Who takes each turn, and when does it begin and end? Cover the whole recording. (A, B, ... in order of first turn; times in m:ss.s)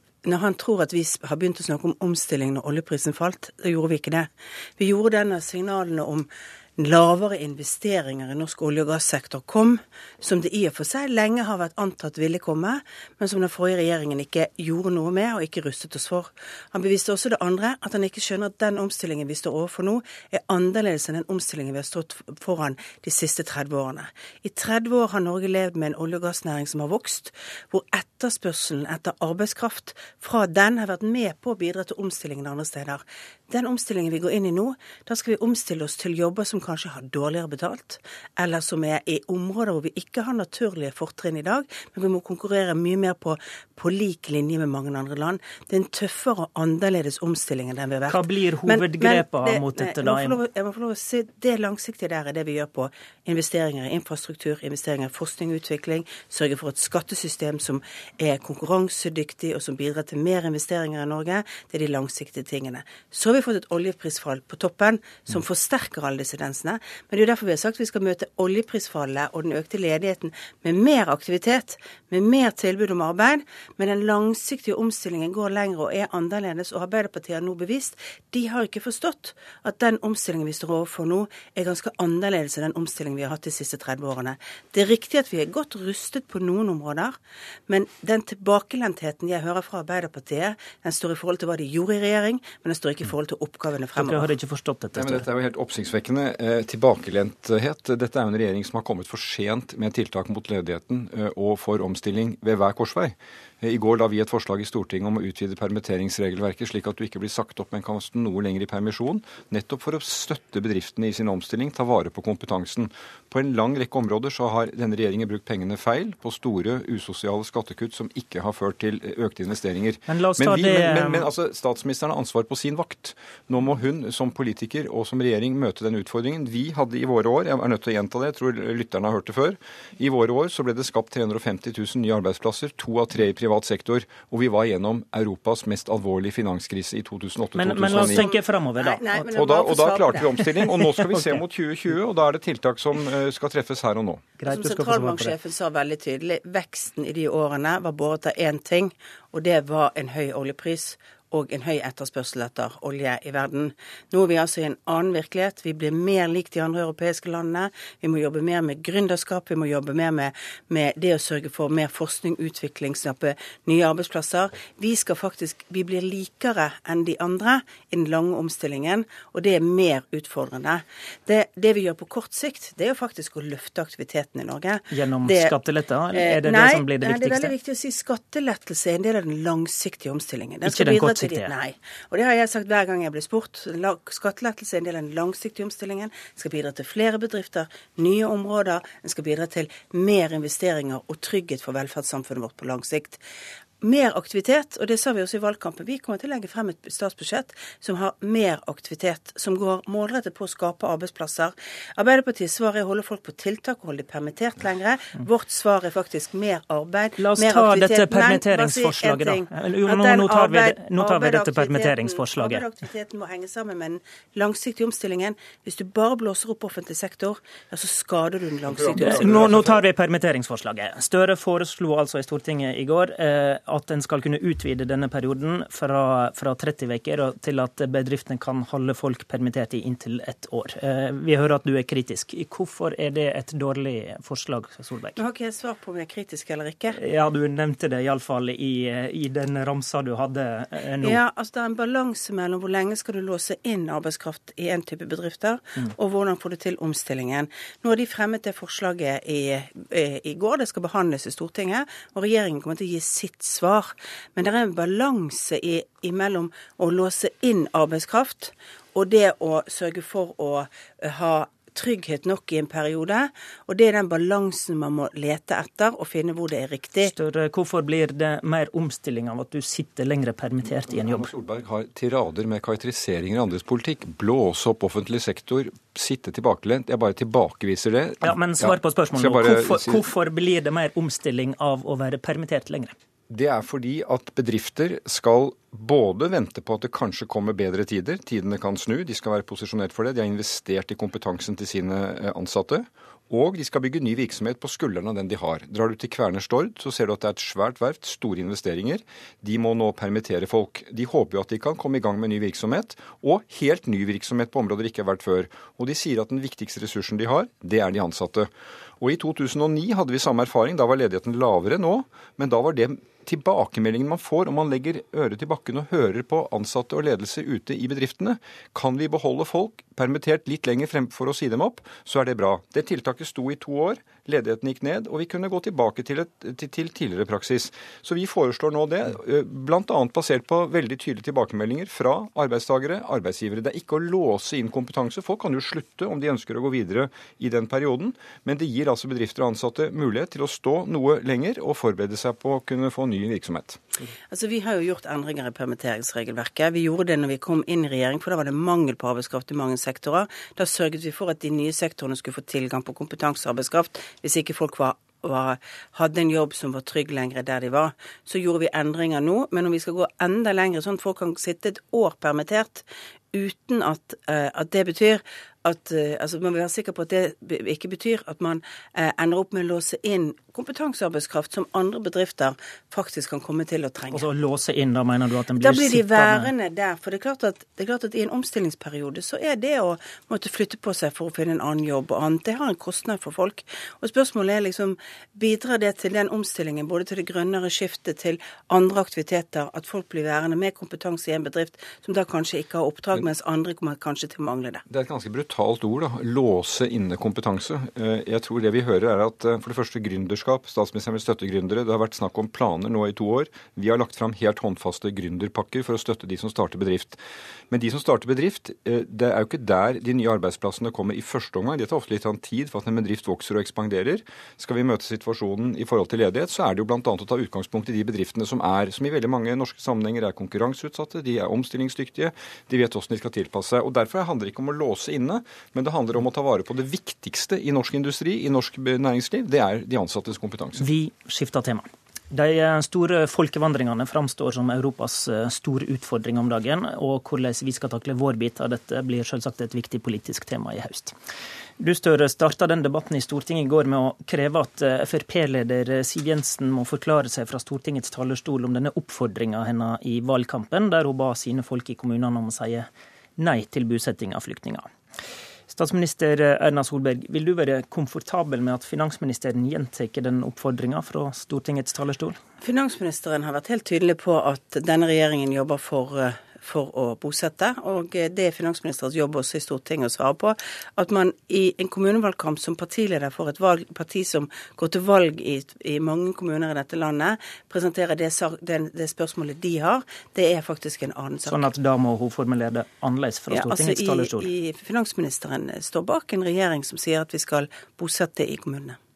0:00.2-1:27.2 A
0:48.1-0:50.4 B
1:27.7-1:34.3 A
1:33.9-1:35.2 B
1:34.9-2:18.2 C
2:00.1-2:01.3 B
2:17.5-2:19.4 B
2:17.9-2:20.4 A
2:19.3-2:24.3 C
2:21.0-2:21.4 B
2:24.4-2:25.4 B
2:24.4-2:55.6 A
2:54.9-2:57.5 B
2:56.1-3:13.2 A
3:00.6-3:01.5 B
3:13.8-3:39.5 A
3:27.2-3:32.7 B
3:38.7-3:39.8 C
3:38.8-3:55.2 B
3:55.2-3:57.0 A
3:57.0-4:01.2 B
4:01.0-4:27.1 A
4:27.0-4:31.3 B
4:30.7-4:40.1 C
4:38.2-4:42.9 B
4:43.3-5:43.8 C
5:44.3-6:14.3 A
6:14.1-6:16.5 B
6:15.6-6:34.8 A
6:34.9-6:47.2 C
6:47.7-7:10.9 C
7:10.8-7:21.2 B
7:21.8-7:34.9 B
7:35.7-7:42.4 B
7:42.6-8:01.7 A
8:01.4-8:04.5 B
8:03.5-8:09.0 A